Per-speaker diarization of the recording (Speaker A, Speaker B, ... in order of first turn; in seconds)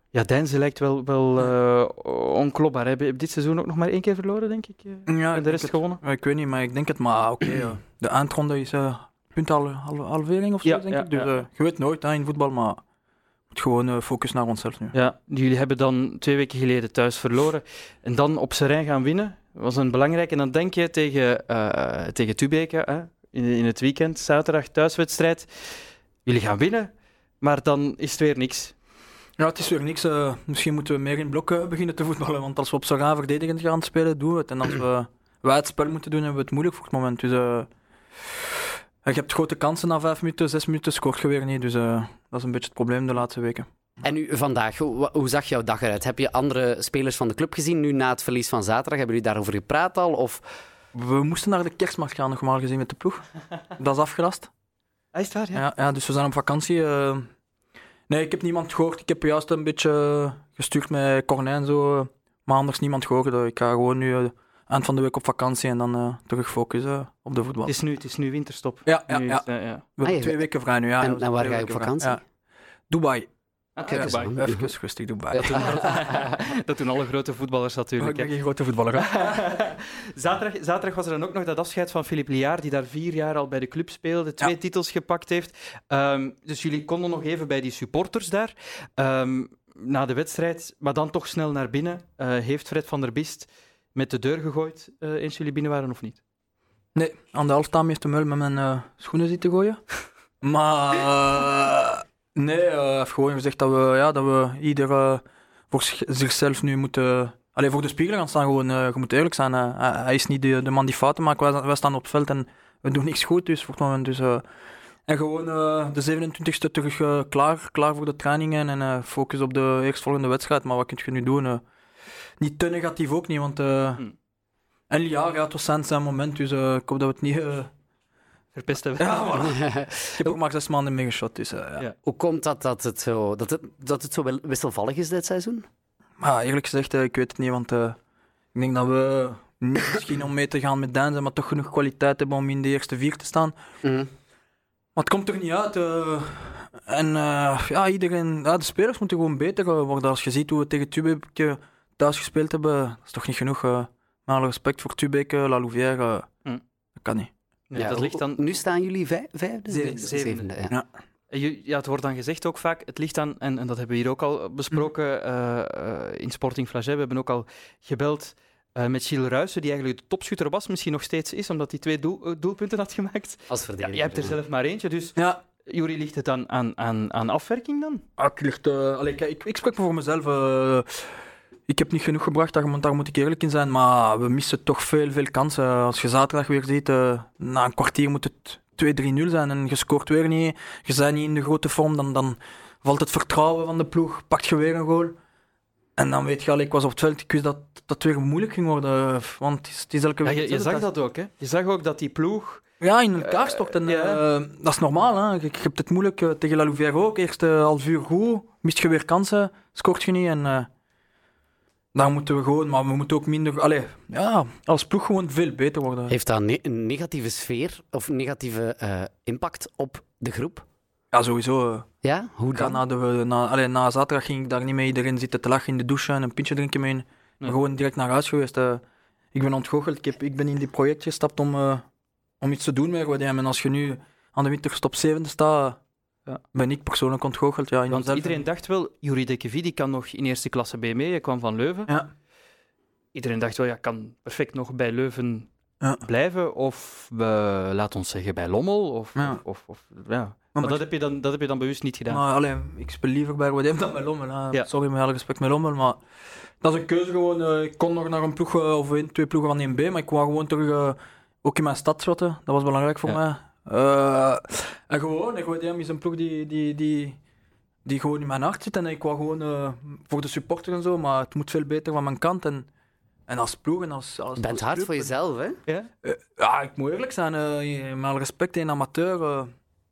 Speaker A: 0.1-6.0, 10.6-11.4, 14.9-25.5, 26.2-28.7, 55.1-55.6, 67.7-69.8, 73.8-74.4, 75.4-78.3, 79.0-96.2, 128.5-129.6, 157.7-158.6, 159.8-160.4, 161.3-178.0, 200.2-202.6, 203.2-204.2, 237.9-241.9, 243.1-245.5, 246.0-252.2
Speaker B: 5.1-12.8, 13.5-14.9, 29.4-37.7, 39.0-43.7, 50.9-53.2, 53.8-54.5, 55.5-57.3, 58.1-67.7, 68.8-72.2, 72.9-73.3, 73.9-76.1, 78.0-79.5, 96.9-99.8, 100.4-114.4, 115.1-121.6, 122.4-124.0, 124.9-127.7, 129.0-129.5, 130.2-131.8, 136.2-138.0, 138.5-143.5, 144.9-156.3, 157.0-157.3, 159.7-160.1, 175.2-175.4, 178.2-181.0, 181.7-195.1, 196.0-200.9, 202.8-210.7, 211.9-216.1, 221.1-221.9, 222.5-228.8, 229.3-231.8, 232.4-235.8, 236.5-238.4, 250.5-250.8, 252.1-256.0, 256.6-267.2, 267.8-272.7, 273.3-275.1, 276.0-279.5
Speaker C: 44.0-50.4, 70.0-70.5, 71.0-72.2, 73.9-74.7, 75.3-76.3, 129.4-130.3, 132.0-135.7, 143.8-144.1, 157.7-160.7, 173.5-174.3, 216.1-220.6, 222.0-222.8, 274.4-275.6